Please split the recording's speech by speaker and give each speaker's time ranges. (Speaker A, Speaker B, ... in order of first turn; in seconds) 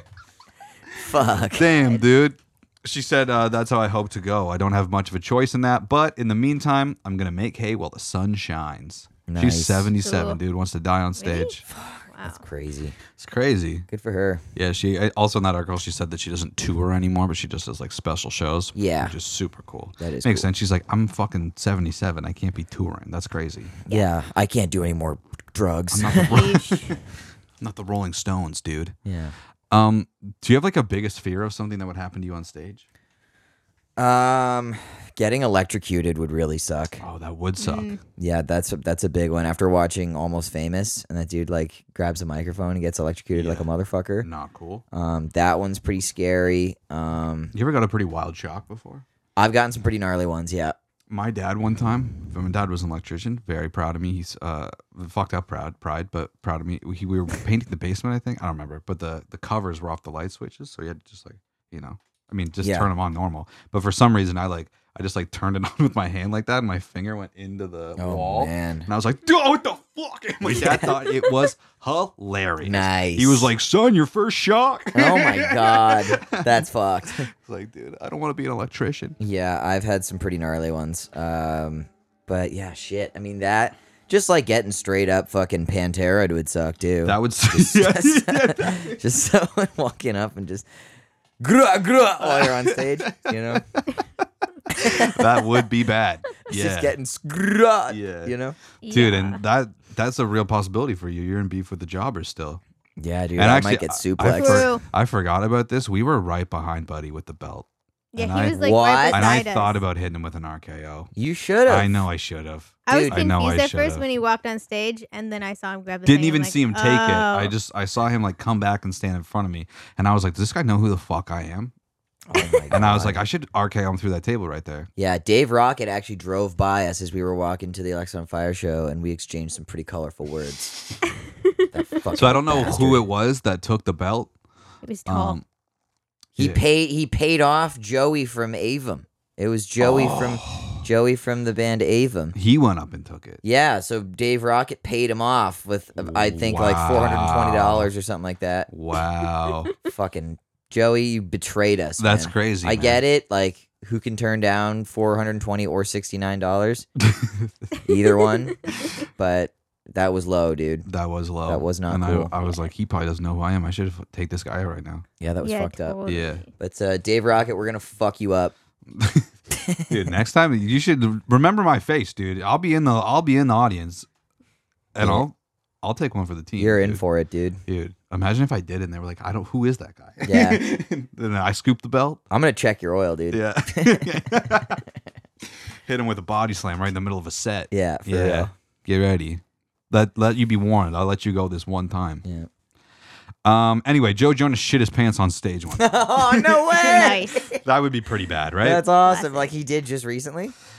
Speaker A: 0.9-1.7, 9.3-9.9, 11.7-13.0, 13.9-14.4, 18.7-19.1, 20.0-20.5, 23.9-26.4, 29.0-29.3, 34.0-37.0, 38.2-44.3, 44.9-47.5, 49.4-50.8, 62.6-62.9, 68.0-68.9, 70.4-71.0, 72.6-73.5, 74.9-77.3, 79.2-90.7, 91.4-93.7, 94.7-95.2, 96.5-98.5, 103.0-104.7, 108.5-109.3, 111.2-112.0, 112.9-113.2, 122.3-123.2, 125.0-130.8, 131.7-133.1, 136.3-142.3, 143.4-148.7, 149.8-156.9, 157.8-160.9, 161.5-162.3, 165.2-166.0, 166.6-168.5, 169.5-170.0, 175.0-175.2, 176.6-177.6, 180.2-180.6, 182.3-184.7, 187.7-188.5, 195.8-197.6, 198.6-200.5
Speaker B: 1.5-11.6, 13.2-13.9, 14.6-23.7, 25.9-27.0, 27.6-28.9, 29.7-32.8, 37.0-38.0, 43.3-43.7, 44.2-44.8, 47.5-49.0, 51.1-76.6, 77.2-79.2, 87.0-89.0, 92.2-93.8, 94.7-97.0, 97.9-98.3, 98.9-102.6, 103.4-111.1, 111.7-114.0, 116.0-121.7, 122.7-124.9, 132.1-134.3, 135.1-135.4, 139.8-140.8, 142.3-143.4, 146.0-147.9, 148.7-149.7, 152.0-153.0, 157.0-157.7, 160.8-165.0, 166.1-166.4, 168.9-169.3, 169.9-174.1, 174.9-177.0, 177.7-182.2, 183.3-184.8, 185.7-192.2, 193.4-198.8
Speaker C: 1.6-2.1, 10.0-10.4, 11.2-12.4, 26.1-27.0, 37.6-38.0, 98.8-99.4, 104.3-104.8, 108.1-109.8, 112.9-117.5, 134.8-135.4, 165.4-166.5, 196.8-197.5, 199.0-199.5